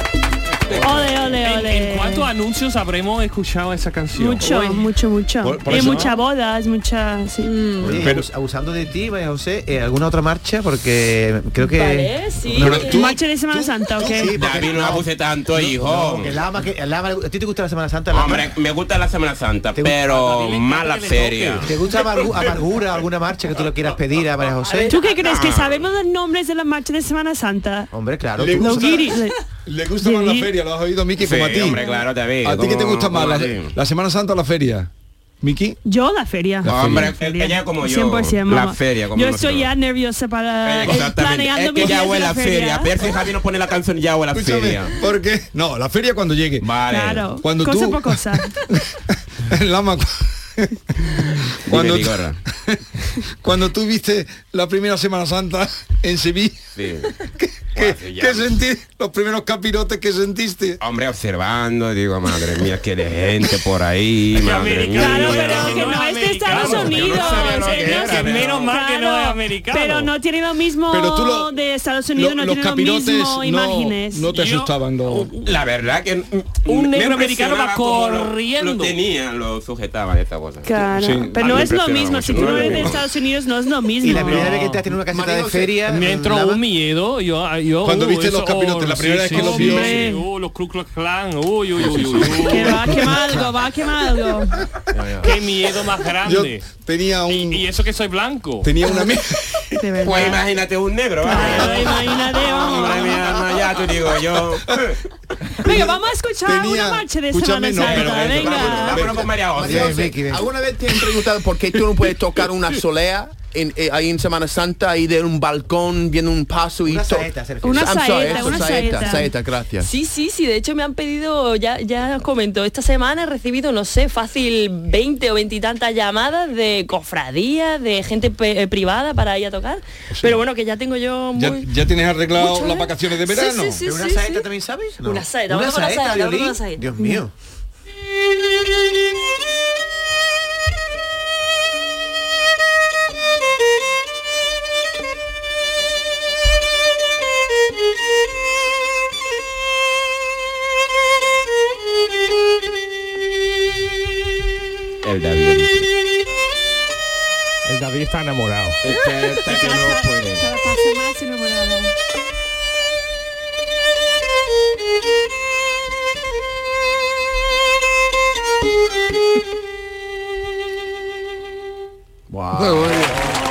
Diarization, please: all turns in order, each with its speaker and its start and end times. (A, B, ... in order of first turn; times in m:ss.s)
0:00.7-0:04.7 A
0:00.7-0:02.3 B
0:04.1-0:07.6 B
0:04.4-0:04.8 C
0:05.4-0:06.1 D
0:05.7-0:06.1 A
0:07.4-0:08.1 C
0:07.8-0:12.9 E
0:07.8-0:08.3 D
0:11.6-0:13.0 C
0:12.5-0:15.0 D
0:12.8-0:14.4 B
0:14.2-0:18.5 E
0:14.4-0:16.3 F
0:15.5-0:16.0 D
0:18.1-0:21.7 F
0:19.9-0:22.5 A
0:21.6-0:24.9 E
0:24.6-0:25.0 A
0:24.9-0:27.9 B
0:25.2-0:25.8 F
0:27.9-0:28.8 E
0:28.4-0:31.8 D
0:28.5-0:29.4 B
0:30.0-0:30.5 B
0:31.2-0:33.7 F
0:31.7-0:32.0 B
0:32.4-0:34.9 D
0:35.4-0:35.8 D
0:35.8-0:42.9 B
0:36.6-0:37.1 D
0:36.6-0:39.7 F
0:40.6-0:44.9 F
0:44.3-0:46.7 D
0:46.6-0:47.2 F
0:46.9-0:48.6 B
0:47.4-0:56.6 D
0:51.7-0:52.4 F
0:56.7-0:57.1 F
0:57.4-1:00.8 D
0:57.7-0:58.6 F
1:00.8-1:08.7 F
1:04.3-1:10.1 A
1:04.9-1:14.6 B
1:10.9-1:11.5 D
1:12.1-1:15.3 D
1:15.1-1:23.0 F
1:16.7-1:19.0 A
1:20.6-1:24.5 B
1:20.9-1:21.8 D
1:22.3-1:22.9 D
1:24.0-1:26.6 E
1:24.0-1:25.0 A
1:25.1-1:25.9 G
1:25.8-1:33.2 A
1:27.8-1:30.1 D
1:29.3-1:30.2 B
1:32.0-1:33.3 D
1:32.4-1:34.6 B
1:34.9-1:35.3 G
1:35.2-1:36.6 A
1:36.2-1:37.6 D
1:37.3-1:38.7 A
1:38.6-1:39.9 D
1:39.8-1:40.4 B
1:40.0-1:45.0 F
1:41.2-1:43.3 B
1:41.4-1:42.0 D
1:45.6-1:49.3 D
1:45.6-1:49.0 B
1:47.8-1:50.2 F
1:49.5-1:50.5 E
1:49.6-1:59.9 G
1:56.8-1:58.0 E
1:57.6-1:59.3 B
1:59.8-2:11.7 C
2:10.1-2:10.4 D
2:11.4-2:13.8 D
2:12.3-2:14.5 C
2:13.8-2:17.3 E
2:15.0-2:17.2 C
2:35.0-2:35.9 F
2:37.6-2:38.8 A
2:38.8-2:40.4 F
2:38.9-2:41.9 B
2:52.3-2:53.3 G